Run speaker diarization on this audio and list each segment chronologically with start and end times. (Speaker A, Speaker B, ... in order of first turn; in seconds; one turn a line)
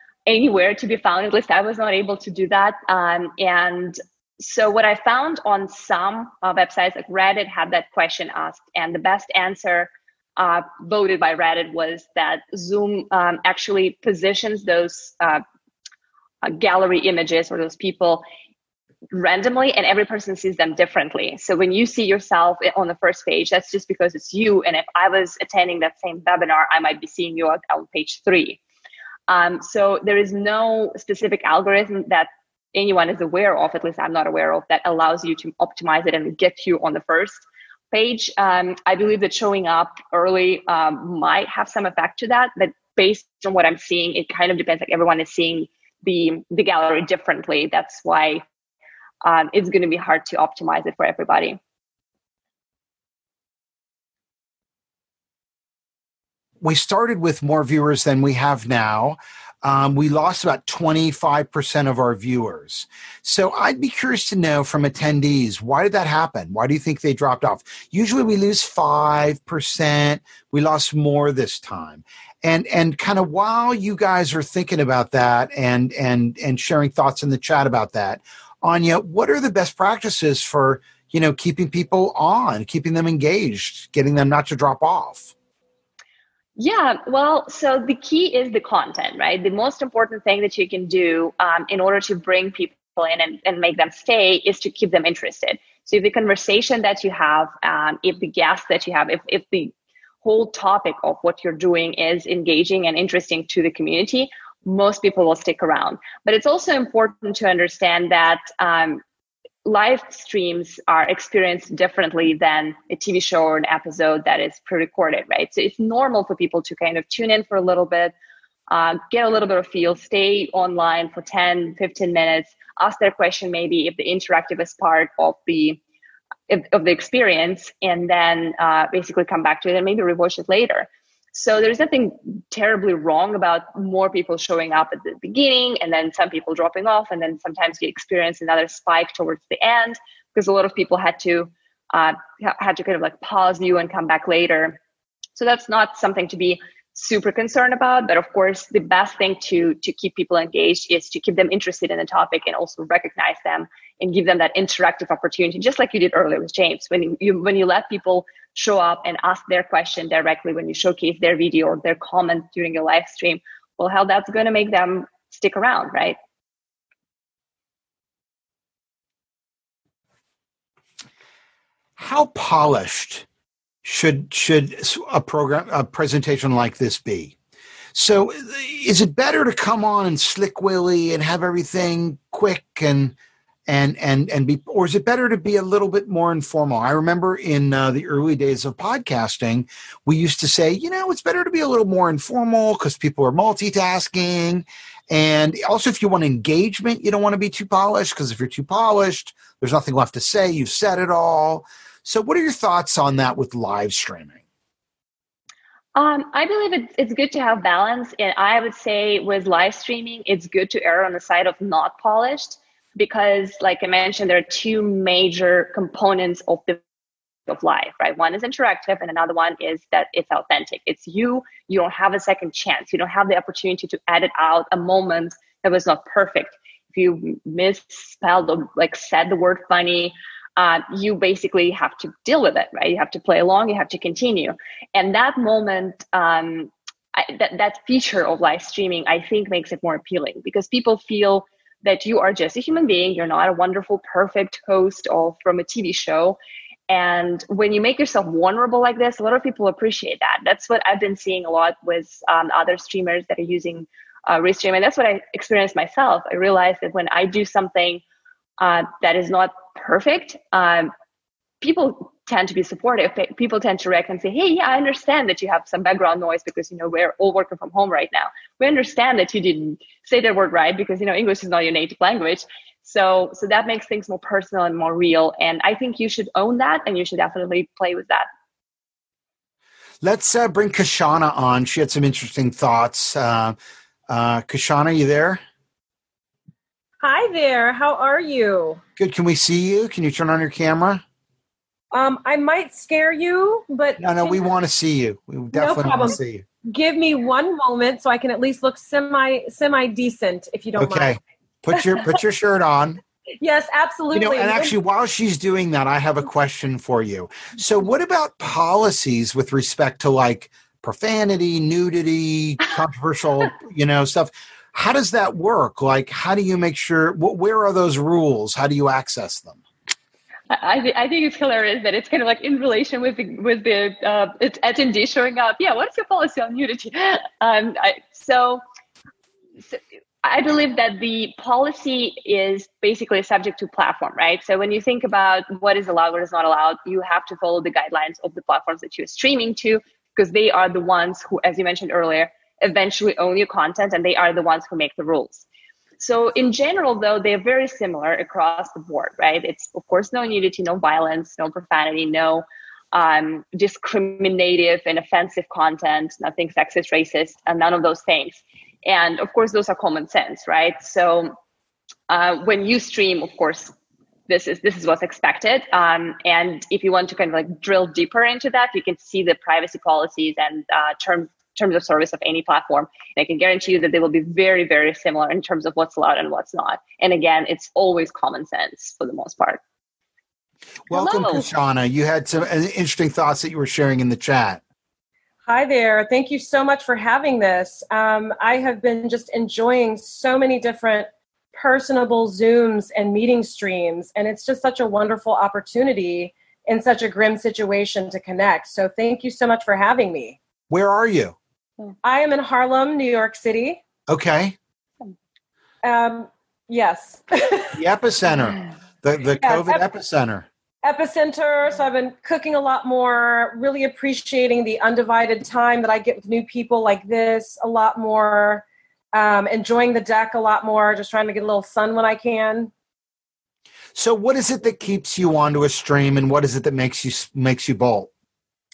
Speaker A: 0.2-15.4
Speaker A: 16.4-18.2
Speaker A: 19.1-28.6
Speaker A: 29.3-48.4
Speaker A: 49.2-51.6
Speaker B: 56.6-85.3
Speaker A: 86.6-109.0
Speaker A: 109.6-118.1
Speaker A: 118.7-125.8
Speaker A: 126.5-144.8
Speaker A: 145.3-166.2
Speaker B: 172.0-173.2
Speaker B: 173.8-177.3
Speaker B: 177.9-183.2
Speaker B: 183.7-204.4
Speaker A: 205.9-216.8
Speaker A: 217.5-246.4
Speaker A: 246.9-258.0
Speaker A: 258.6-260.9
Speaker A: 261.6-278.3
Speaker B: 280.0-283.6
Speaker B: 284.1-285.4
Speaker C: 287.0-288.8
Speaker B: 289.0-291.0
Speaker C: 291.9-294.4
Speaker B: 294.0-296.4
Speaker C: 295.5-301.1
Speaker B: 300.8-303.0
Speaker C: 303.4-304.7
Speaker B: 304.1-319.6
Speaker A: 320.5-328.6
Speaker A: 329.7-345.4
Speaker A: 346.0-361.3
Speaker A: 362.1-363.7
Speaker A: 364.3-379.6
Speaker B: 380.9-384.6
Speaker A: 380.9-381.4
Speaker C: 385.5-400.4
Speaker B: 400.7-401.4
Speaker C: 402.0-403.8
Speaker B: 404.1-404.6
Speaker C: 405.8-407.8
Speaker B: 407.7-410.4
Speaker C: 409.4-409.9
Speaker C: 410.8-422.7
Speaker B: 423.9-428.1